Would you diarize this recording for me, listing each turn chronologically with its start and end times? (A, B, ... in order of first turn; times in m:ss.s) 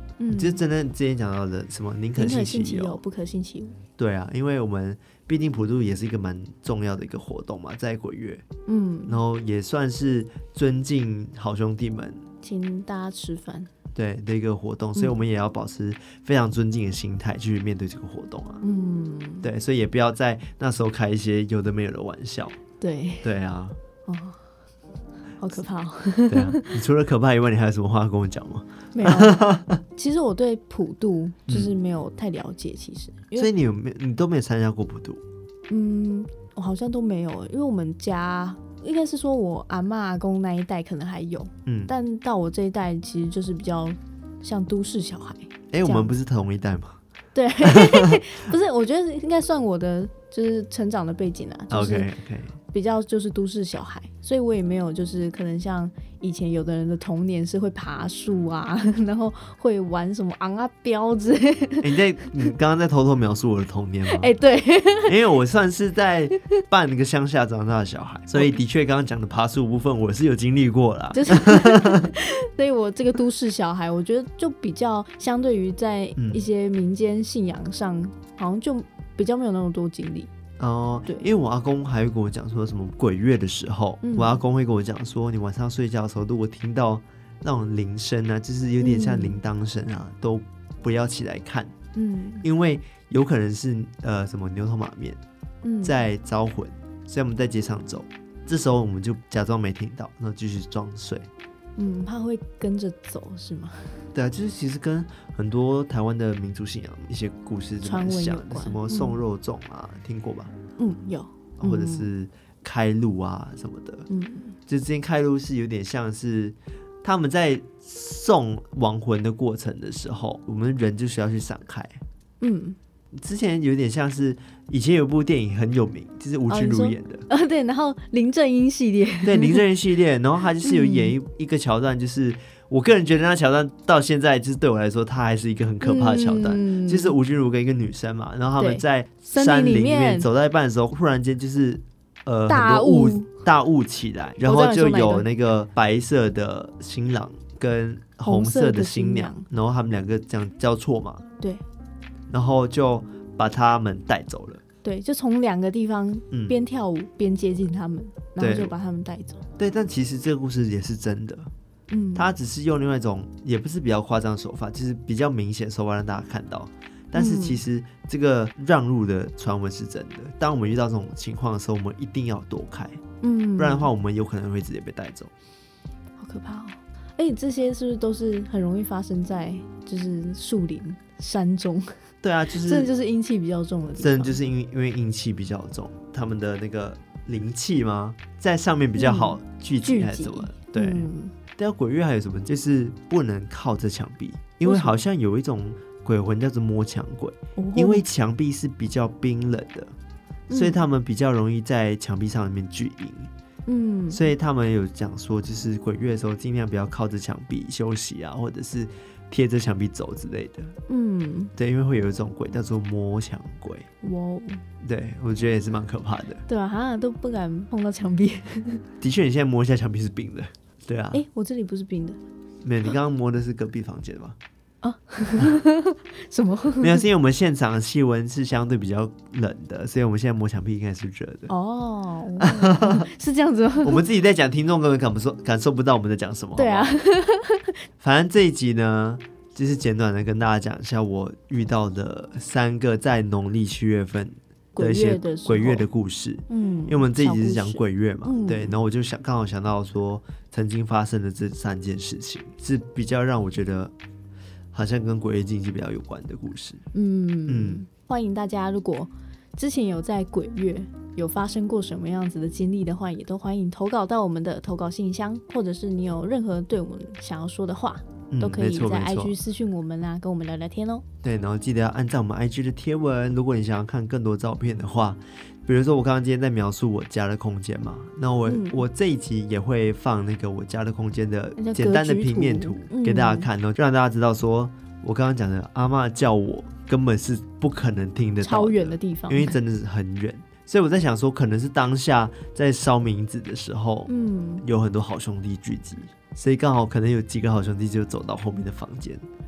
0:00.2-0:00.6 A
0:00.3-0:03.0 B
0:02.2-0:03.8 A
0:04.0-0:08.4 B
0:08.6-0:09.2 A
0:09.1-0:12.2 B
0:12.4-0:13.7 A
0:13.9-0:18.6 B
0:18.6-0:19.5 A
0:19.4-0:22.6 B
0:22.8-0:23.3 A
0:23.2-0:23.8 B
0:24.0-0:24.4 A
0:25.4-0:26.7 A
0:26.3-0:29.8 B
0:28.9-0:29.4 A
0:29.9-0:33.5 A
0:33.4-0:35.2 B
0:35.7-0:46.2 A
0:41.6-0:41.9 B
0:45.7-0:47.0 B
0:47.3-0:52.1 A
0:47.7-0:48.2 B
0:51.7-0:52.6 B
0:52.7-1:01.9 A
1:01.8-1:04.3 B
1:04.1-1:05.2 A
1:05.0-1:12.1 B
1:11.1-1:20.3 A
1:16.2-1:16.4 B
1:20.6-1:31.7 B
1:24.0-1:24.4 A
1:28.8-1:29.4 A
1:31.9-1:32.4 A
1:32.4-1:35.2 B
1:35.6-1:36.0 A
1:35.8-1:41.3 B
1:41.8-1:44.0 A
1:44.1-1:50.5 B
1:47.8-1:49.2 A
1:50.8-1:52.1 A
1:51.6-1:54.1 B
1:54.1-1:54.6 A
1:54.7-2:02.0 B
2:02.4-2:02.8 A
2:03.2-2:07.2 B
2:06.5-2:09.6 A
2:09.2-2:31.2 B
2:10.6-2:11.2 A
2:15.8-2:17.2 A
2:18.6-2:20.3 A
2:22.5-2:23.3 A
2:24.4-2:25.3 A
2:28.2-2:29.4 A
2:32.3-2:34.6 B
2:34.8-2:39.4 A
2:36.3-2:36.6 B
2:38.4-2:38.7 B
2:39.6-2:41.5 B
2:41.9-2:42.3 A
2:42.1-2:53.0 B
2:47.1-2:47.6 A
2:53.2-2:53.9 A
2:53.6-2:55.3 B
2:56.2-3:01.9 A
3:02.2-3:02.9 B
3:02.6-3:04.4 A
3:04.0-3:19.9 B
3:09.0-3:11.3 A
3:14.6-3:14.9 A
3:17.6-3:18.0 A
3:20.5-3:23.3 B
3:20.5-3:20.8 A
3:23.7-3:24.3 A
3:24.1-3:30.7 B
3:30.9-3:31.5 A
3:31.6-3:33.9 B
3:34.0-3:34.6 A
3:34.8-3:36.4 B
3:36.5-3:38.8 A
3:39.0-3:41.2 B
3:41.1-3:42.2 A
3:42.6-3:44.4 B
3:44.8-3:47.0 A
3:46.8-3:51.5 B
3:51.5-3:54.0 A
3:52.4-3:53.1 B
3:53.8-3:56.9 B
3:56.6-3:57.7 A
3:58.0-4:13.9 B
4:04.8-4:05.8 A
4:06.5-4:08.8 A
4:14.7-4:16.8 B
4:16.9-4:31.0 A
4:17.5-4:17.8 B
4:28.3-4:29.4 B
4:31.2-4:54.1 B
4:38.4-4:38.8 A
4:41.6-4:43.5 A
4:48.4-4:49.6 A
4:54.1-4:54.6 A
4:54.6-4:59.2 B